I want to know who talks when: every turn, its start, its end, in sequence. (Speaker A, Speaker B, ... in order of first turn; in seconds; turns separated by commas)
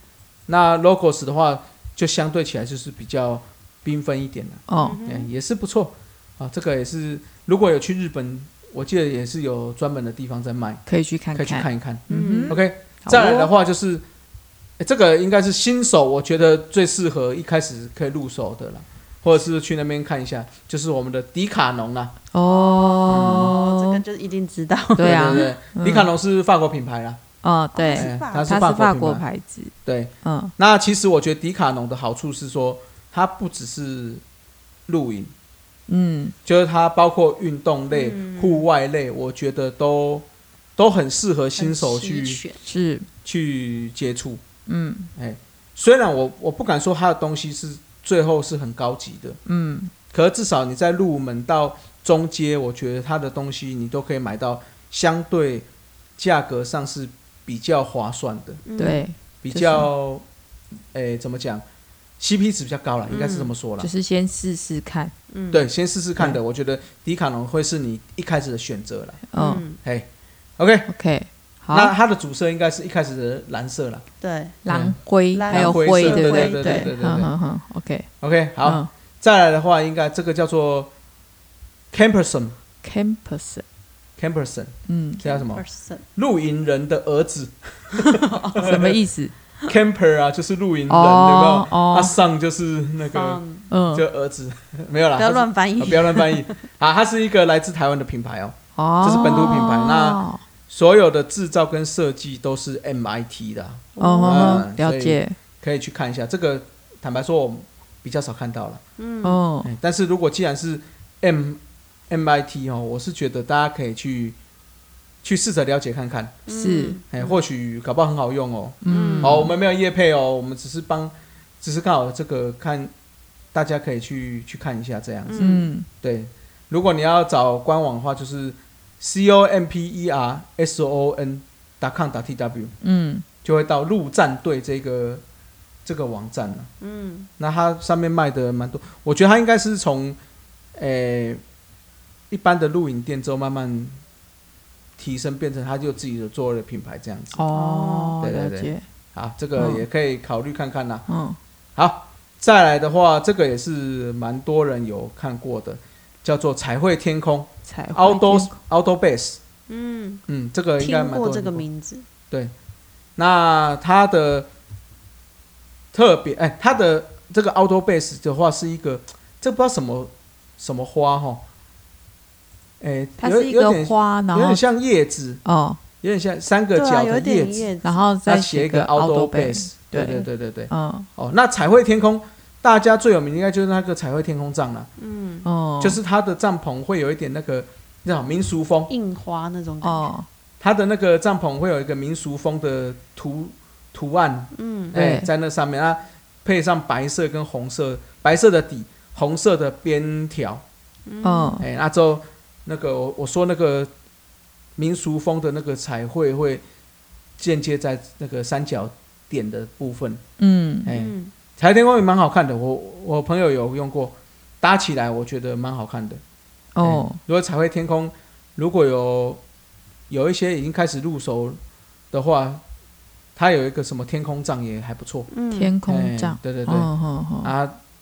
Speaker A: 0.5-10.8, Speaker B: 4.7-5.0, Speaker C: 4.8-5.3, Speaker B: 10.9-13.5, Speaker A: 11.3-14.0, Speaker C: 12.1-12.6, Speaker A: 14.8-22.1, Speaker B: 22.3-24.0, Speaker C: 22.4-25.5, Speaker A: 23.1-23.6, Speaker B: 24.9-26.1, Speaker A: 25.0-27.2, Speaker B: 27.4-30.5, Speaker C: 27.8-28.6, Speaker A: 28.0-29.2, Speaker A: 29.9-34.2, Speaker A: 34.9-35.3, Speaker B: 35.9-36.4, Speaker A: 36.5-40.3, Speaker C: 37.9-38.7, Speaker A: 40.8-42.4, Speaker C: 41.6-42.6, Speaker B: 42.6-43.1, Speaker A: 43.2-44.4, Speaker B: 44.7-45.1, Speaker A: 45.2-49.4, Speaker B: 49.5-49.9, Speaker A: 50.1-58.6, Speaker C: 58.7-59.1, Speaker B: 58.8-59.9, Speaker A: 59.4-60.2, Speaker A: 60.9-61.6, Speaker A: 62.2-63.9, Speaker C: 63.1-63.5, Speaker B: 63.8-65.1, Speaker C: 65.3-65.7, Speaker A: 65.5-69.2, Speaker B: 69.3-69.6, Speaker C: 69.4-69.8, Speaker A: 70.6-70.9, Speaker B: 70.9-71.9, Speaker A: 71.7-74.0, Speaker C: 74.2-74.6, Speaker B: 74.6-78.1, Speaker A: 74.7-75.0, Speaker C: 75.3-77.0, Speaker A: 75.5-77.3, Speaker A: 78.2-80.9, Speaker B: 78.6-78.9, Speaker A: 81.9-82.6, Speaker B: 82.8-83.7, Speaker A: 84.2-85.6, Speaker B: 84.9-85.2, Speaker C: 85.2-86.0, Speaker A: 86.2-89.0, Speaker C: 88.0-88.8, Speaker B: 88.6-89.3, Speaker A: 89.7-93.4, Speaker B: 90.9-92.2, Speaker C: 93.0-93.7, Speaker B: 93.7-94.1, Speaker A: 93.9-108.8, Speaker C: 95.2-96.6, Speaker B: 98.8-100.4, Speaker C: 99.2-99.6, Speaker C: 104.0-104.7, Speaker B: 104.0-105.4, Speaker C: 109.0-109.4, Speaker B: 109.2-109.7, Speaker A: 109.6-111.6, Speaker A: 112.1-114.4, Speaker A: 115.2-116.3, Speaker C: 116.5-117.4, Speaker B: 116.5-117.0, Speaker A: 117.1-122.9, Speaker B: 118.8-119.5, Speaker C: 118.9-119.4, Speaker A: 123.5-132.7, Speaker C: 125.3-125.7, Speaker B: 125.4-125.9, Speaker B: 132.8-133.2, Speaker A: 133.4-135.2, Speaker A: 135.8-136.7, Speaker C: 136.8-137.3, Speaker A: 137.4-140.2, Speaker A: 140.8-141.4, Speaker A: 142.3-144.0, Speaker A: 145.0-147.5, Speaker B: 147.3-148.8, Speaker C: 147.5-148.2, Speaker A: 148.2-151.1, Speaker B: 149.6-149.8, Speaker B: 151.1-151.4, Speaker A: 151.8-159.4, Speaker B: 157.7-158.6, Speaker C: 159.7-160.2, Speaker A: 160.3-161.7, Speaker C: 160.8-162.1, Speaker A: 163.2-164.5, Speaker A: 165.9-171.4, Speaker A: 172.8-175.4, Speaker B: 173.2-174.6, Speaker B: 175.4-175.8, Speaker A: 176.0-177.7, Speaker C: 176.7-178.0, Speaker B: 177.8-181.1, Speaker A: 178.3-184.9, Speaker C: 185.0-185.5, Speaker B: 185.4-186.0, Speaker A: 185.8-188.9, Speaker C: 188.9-190.1, Speaker B: 189.8-190.3, Speaker A: 190.6-200.6, Speaker C: 194.5-194.9, Speaker B: 194.9-195.3, Speaker C: 201.1-201.6, Speaker B: 201.2-201.7, Speaker A: 201.6-203.9, Speaker A: 204.8-206.6, Speaker A: 207.4-210.2, Speaker B: 210.4-210.9, Speaker A: 210.9-216.2, Speaker C: 210.9-211.3, Speaker B: 216.8-217.2, Speaker A: 216.8-219.4, Speaker A: 220.1-221.6, Speaker A: 222.1-222.6, Speaker A: 223.3-225.3, Speaker C: 225.3-225.7, Speaker B: 225.5-227.5, Speaker A: 225.9-226.9, Speaker A: 227.4-227.8